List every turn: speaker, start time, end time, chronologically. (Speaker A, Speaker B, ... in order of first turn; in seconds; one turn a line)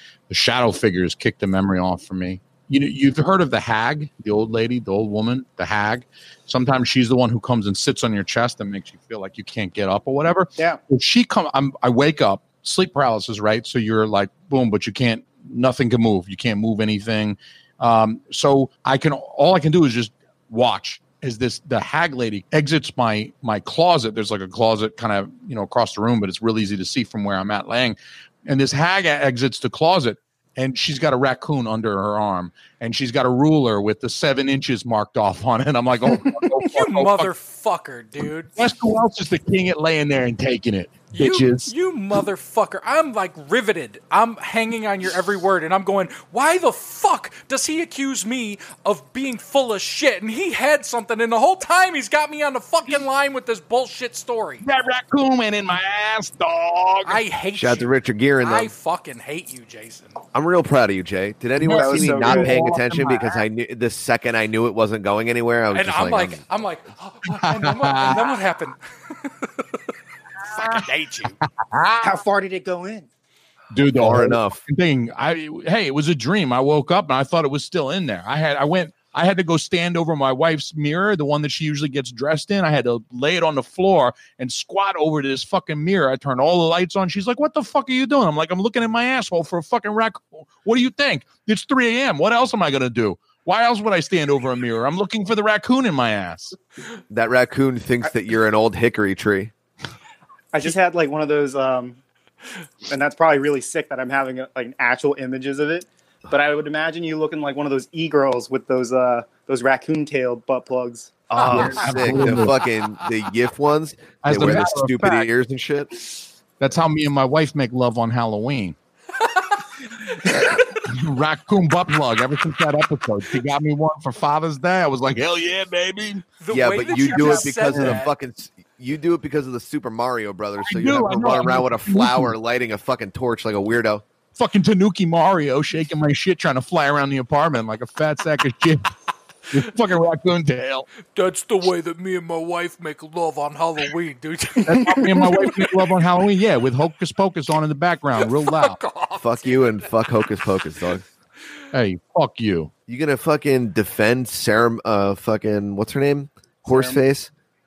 Speaker A: 0.3-37.3
Speaker B: 36.6-38.6
Speaker A: 38.6-41.7
Speaker B: 41.2-54.6
Speaker A: 54.6-57.2
Speaker B: 57.0-57.9
Speaker C: 57.5-58.7
Speaker B: 58.4-60.2
Speaker C: 60.4-66.4
Speaker A: 61.6-63.2
Speaker D: 61.7-62.7
Speaker B: 65.7-69.8
Speaker A: 67.3-68.3
Speaker B: 70.5-71.4
Speaker A: 70.6-70.8
Speaker A: 71.4-72.2
Speaker D: 72.0-73.1
Speaker A: 73.7-96.6
Speaker C: 74.0-74.6
Speaker C: 97.1-99.5
Speaker D: 100.5-102.0
Speaker D: 102.9-111.2
Speaker C: 111.3-115.9
Speaker B: 111.4-112.8
Speaker A: 111.4-112.6
Speaker A: 114.2-115.3
Speaker A: 116.6-118.8
Speaker B: 119.2-119.6
Speaker A: 120.2-126.3
Speaker B: 126.4-128.1
Speaker C: 126.5-134.0
Speaker A: 126.9-128.0
Speaker A: 130.7-132.3
Speaker A: 134.4-138.9
Speaker A: 139.5-140.9
Speaker B: 141.1-145.7
Speaker A: 144.7-148.8
Speaker B: 148.2-149.9
Speaker C: 149.2-151.0
Speaker A: 151.7-152.7
Speaker C: 152.9-157.3
Speaker D: 156.7-157.0